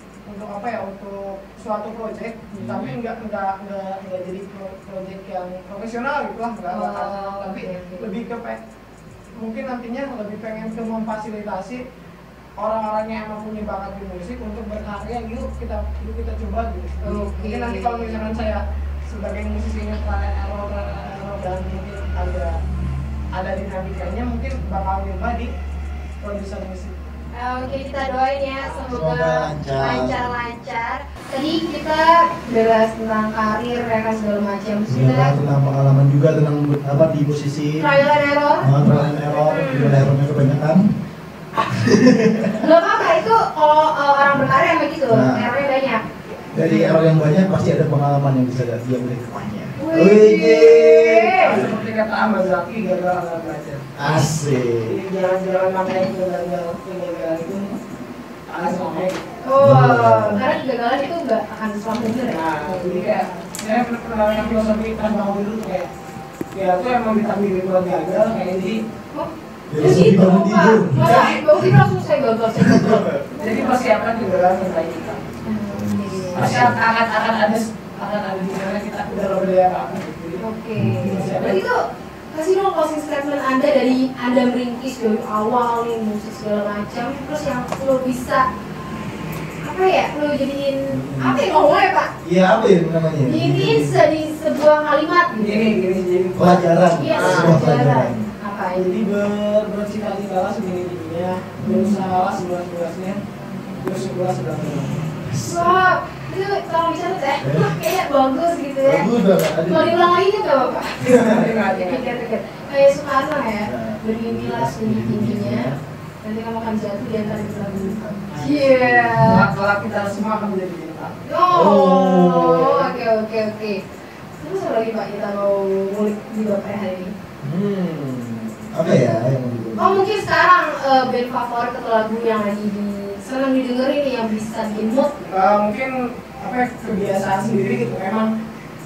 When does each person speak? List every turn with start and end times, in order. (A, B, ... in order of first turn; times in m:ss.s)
0:00.3-0:08.6 A
0:02.6-0:03.0 B
0:06.7-0:08.2 C
0:09.4-0:11.8 A
0:12.6-0:22.6 A
0:17.0-0:18.2 C
0:23.3-0:25.5 A
0:26.2-0:27.0 A
0:27.3-0:35.3 C
0:28.9-0:30.2 B
0:34.9-0:37.9 B
0:37.8-0:38.7 C
0:38.6-0:40.9 B
0:39.4-0:40.0 C
0:41.6-0:42.6 B
0:42.6-0:46.0 C
0:45.1-0:45.4 B
0:46.4-0:47.1 A
0:46.5-0:51.8 B
0:49.8-0:51.6 C
0:51.3-0:53.9 A
0:54.0-0:55.0 B
0:54.8-0:57.7 A
0:58.5-0:59.2 A
0:59.4-1:03.4 C
0:59.6-1:00.4 B
1:02.2-1:05.9 A
1:06.5-1:08.8 A
1:09.1-1:13.8 C
1:09.7-1:11.8 B
1:11.0-1:11.5 A
1:12.6-1:13.2 B
1:13.3-1:15.3 A
1:15.4-1:16.7 C
1:15.7-1:16.8 B
1:16.4-1:20.4 A
1:20.4-1:28.5 C
1:20.8-1:21.3 B
1:21.0-1:21.7 A
1:29.6-1:32.1 C
1:30.9-1:31.5 B
1:32.2-1:34.0 B
1:33.2-1:35.7 C
1:35.4-1:37.6 A
1:36.4-1:38.3 B
1:36.9-1:39.0 C
1:38.8-1:43.2 A
1:41.6-1:42.0 C
1:43.5-1:43.8 C
1:43.8-1:45.0 A
1:45.2-1:45.8 B
1:45.4-1:49.1 C
1:47.4-1:47.7 B
1:48.8-1:50.1 B
1:49.6-1:59.5 C
1:51.0-1:52.2 A
1:53.7-1:55.8 B
1:58.0-1:59.2 B
1:59.2-2:01.2 A
2:01.2-2:03.8 C
2:01.5-2:02.8 B
2:04.4-2:07.1 C
2:07.4-2:10.0 B
2:09.8-2:15.3 C
2:15.3-2:18.3 A